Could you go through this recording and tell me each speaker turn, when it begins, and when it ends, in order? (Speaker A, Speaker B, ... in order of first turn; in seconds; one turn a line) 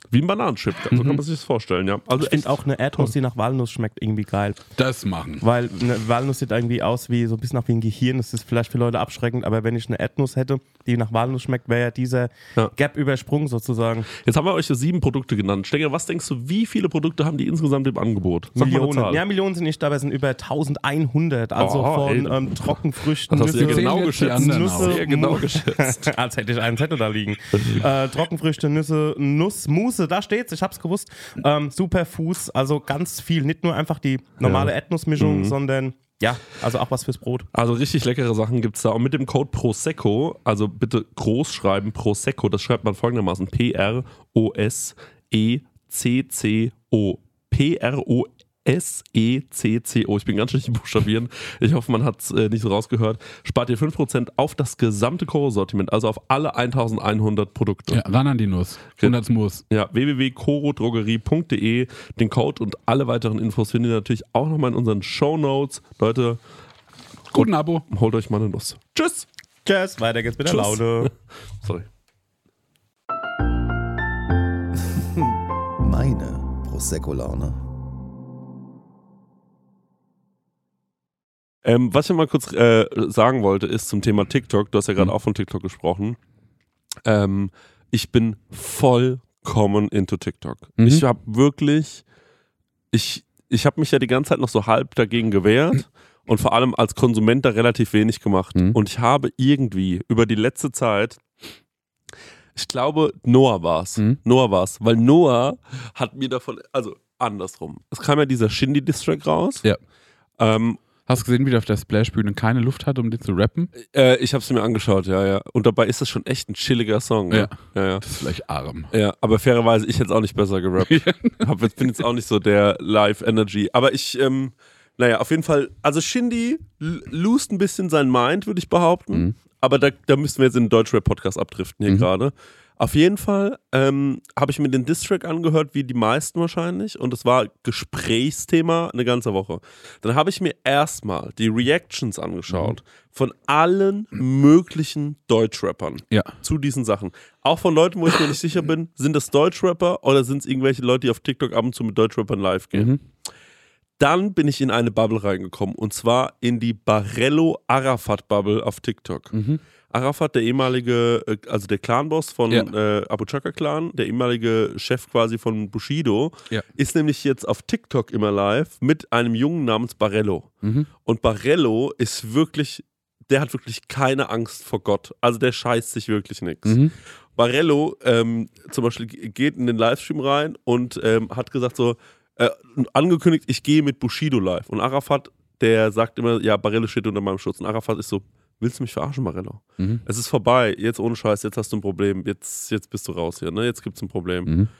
Speaker A: 0.1-3.1
Speaker B: 0.9-1.2
Speaker C: 2.2-4.6
Speaker B: 4.8-5.5
Speaker C: 5.4-14.1
Speaker A: 14.1-19.2
Speaker C: 18.6-37.5
Speaker A: 21.6-26.1
Speaker B: 23.6-25.0
Speaker A: 35.2-35.5
Speaker A: 37.5-58.0
Speaker B: 57.9-59.6
Speaker A: 59.7-66.4
Speaker B: 67.3-67.9
Speaker A: 67.3-69.3
Speaker C: 69.7-71.1
Speaker A: 70.5-71.9
Speaker D: 74.8-77.6
Speaker A: 81.6-86.2
Speaker A: 87.0-92.0
Speaker B: 90.8-91.0
Speaker A: 92.9-101.2
Speaker A: 102.6-109.6
Speaker A: 110.4-110.8
Speaker B: 111.1-113.7
Speaker A: 113.8-118.0
Speaker B: 117.3-118.9
Speaker A: 118.9-152.9
Speaker B: 120.9-121.5
Speaker B: 142.5-142.8
Speaker B: 152.8-153.0
Speaker A: 154.0-159.3
Speaker B: 159.3-159.6
Speaker A: 159.9-170.5
Speaker B: 170.6-170.9
Speaker A: 171.1-176.8
Speaker B: 176.7-176.9
Speaker A: 177.4-194.5